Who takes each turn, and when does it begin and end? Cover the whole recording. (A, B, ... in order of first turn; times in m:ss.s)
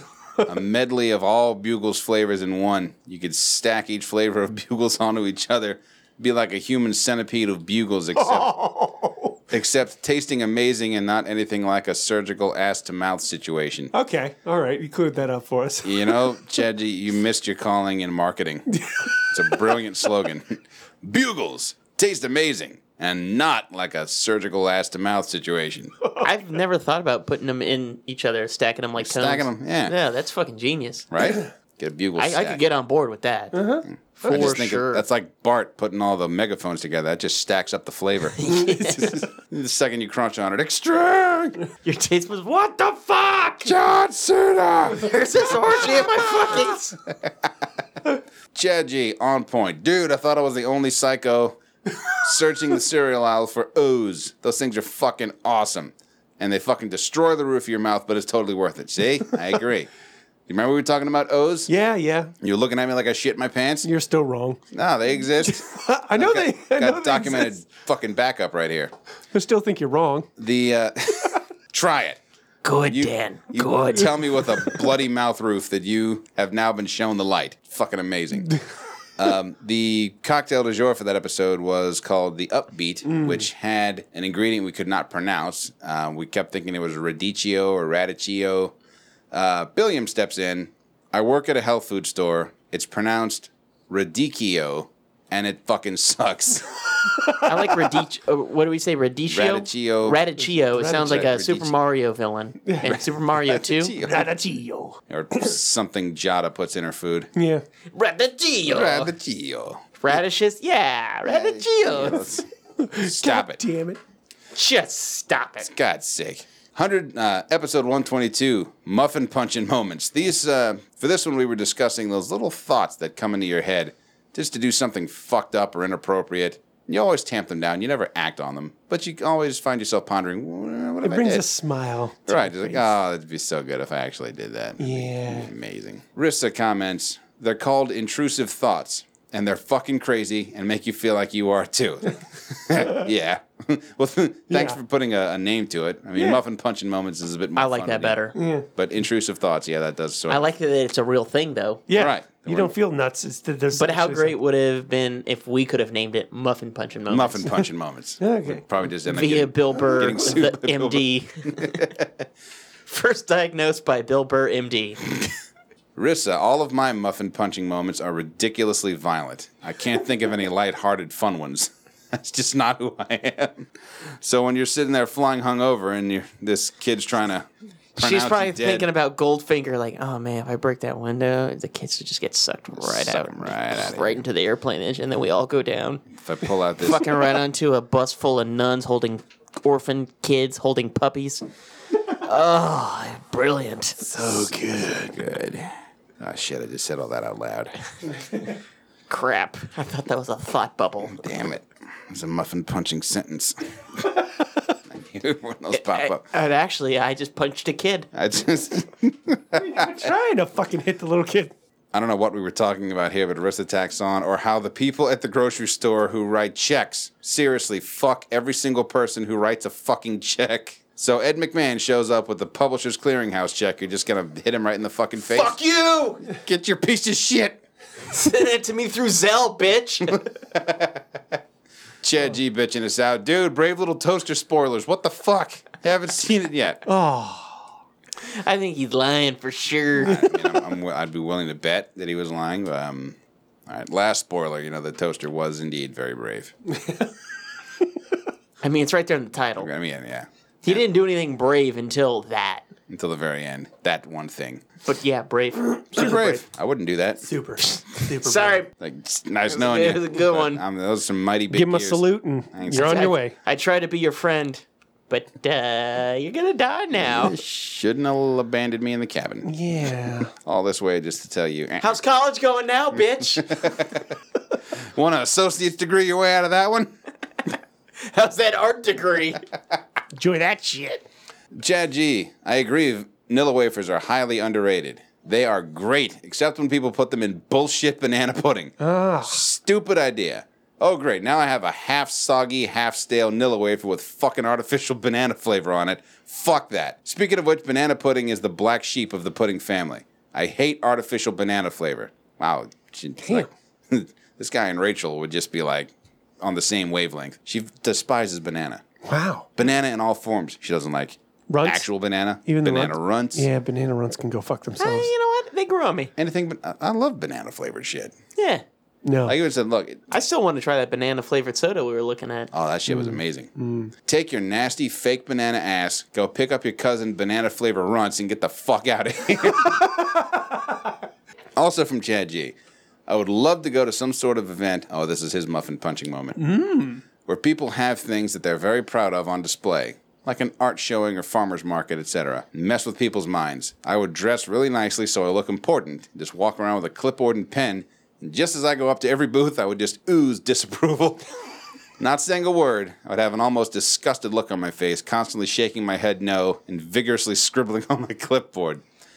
0:00.4-0:08.6 A
0:08.1-0:09.4 B
0:09.5-0:13.9 A
0:13.9-0:16.2 B
0:15.8-0:25.9 A
0:18.7-0:19.7 B
0:26.2-0:31.1 C
0:29.0-0:29.9 A
0:31.1-0:32.6 A
0:32.2-0:35.0 C
0:33.5-0:34.5 B
0:33.9-0:41.6 A
0:38.4-0:39.2 C
0:38.5-0:39.2 B
0:41.8-0:43.7 C
0:43.6-0:47.5 A
0:44.9-0:47.0 C
0:48.5-0:51.6 A
0:52.2-0:59.9 A
1:00.5-1:01.7 A
1:01.7-1:02.3 B
1:02.4-1:03.9 A
1:03.8-1:04.6 B
1:04.7-1:08.9 A
1:05.4-1:07.5 B
1:09.3-1:10.3 B
1:10.4-1:12.2 A
1:12.6-1:14.1 C
1:12.9-1:18.6 A
1:19.2-1:28.7 A
1:23.0-1:23.4 B
1:29.3-1:37.0 A
1:37.2-1:37.6 B
1:37.4-1:44.0 C
1:39.2-1:40.2 A
1:40.4-1:41.2 B
1:40.8-1:41.7 A
1:42.6-1:43.0 B
1:42.8-1:44.3 A
1:44.0-1:45.4 B
1:45.1-1:47.3 A
1:47.3-1:47.6 B
1:47.9-1:49.1 C
1:48.7-1:50.2 A
1:50.0-1:52.3 C
1:51.2-1:53.6 A
1:52.8-1:54.0 B
1:54.5-1:55.7 C
1:55.6-2:11.5 A
2:11.0-2:12.9 B
2:12.2-2:30.5 A
2:14.8-2:15.5 B
2:24.5-2:24.8 B
2:26.2-2:26.4 B
2:27.6-2:28.4 C
2:28.3-2:28.7 B
2:30.3-2:31.8 C
2:31.9-2:34.4 B
2:31.9-2:32.7 A
2:33.7-2:37.5 C
2:37.1-2:42.1 A
2:38.2-2:38.6 B
2:39.0-2:41.9 C
2:42.9-2:45.2 C
2:46.0-2:53.7 A
2:54.2-2:58.9 A
2:58.0-3:06.0 C
3:02.8-3:04.2 A
3:06.2-3:07.1 A
3:06.8-3:11.4 C
3:12.1-3:14.1 C
3:14.0-3:15.2 B
3:14.2-3:17.7 A
3:19.1-3:21.2 C
3:21.0-3:23.6 A
3:24.9-3:26.2 A
3:25.7-3:28.1 C
3:28.1-3:30.1 A
3:29.5-3:31.5 B
3:31.9-3:45.6 A
3:45.2-3:46.3 C
3:46.3-3:47.6 A
3:48.1-3:50.3 C
3:50.5-3:51.0 A
3:52.0-3:56.8 A
3:56.8-3:57.7 B
3:58.2-4:00.3 C
4:00.0-4:06.5 A
4:08.6-4:09.7 C
4:09.6-4:10.8 A
4:10.6-4:12.7 C
4:12.9-4:14.6 A
4:14.8-4:16.2 C
4:15.8-4:16.4 B
4:15.9-4:17.2 A
4:17.2-4:18.6 B
4:18.2-4:18.7 C
4:18.8-4:23.1 A
4:19.5-4:20.6 C
4:21.5-4:23.3 B
4:22.7-4:27.4 C
4:27.0-4:29.6 A
4:29.4-4:30.3 B
4:30.3-4:32.0 A
4:31.8-4:33.7 C
4:33.4-4:34.0 A
4:34.8-4:36.9 A
4:38.0-4:39.4 C
4:40.1-4:41.0 B
4:41.5-5:08.8 A
4:48.8-4:49.4 B
5:03.2-5:03.5 B
5:09.0-5:09.5 B
5:09.6-5:13.4 A
5:11.5-5:11.9 B
5:12.4-5:15.1 B
5:14.8-5:16.1 C
5:16.2-5:18.1 A
5:18.4-5:18.6 C
5:19.0-5:19.4 B
5:19.2-5:20.1 A
5:20.1-5:22.5 C
5:22.5-5:23.5 A
5:22.9-5:23.9 B
5:24.0-5:30.2 A
5:31.6-5:32.6 A
5:33.1-5:36.5 A
5:36.4-5:37.0 B
5:37.2-5:51.2 A
5:52.0-5:58.8 A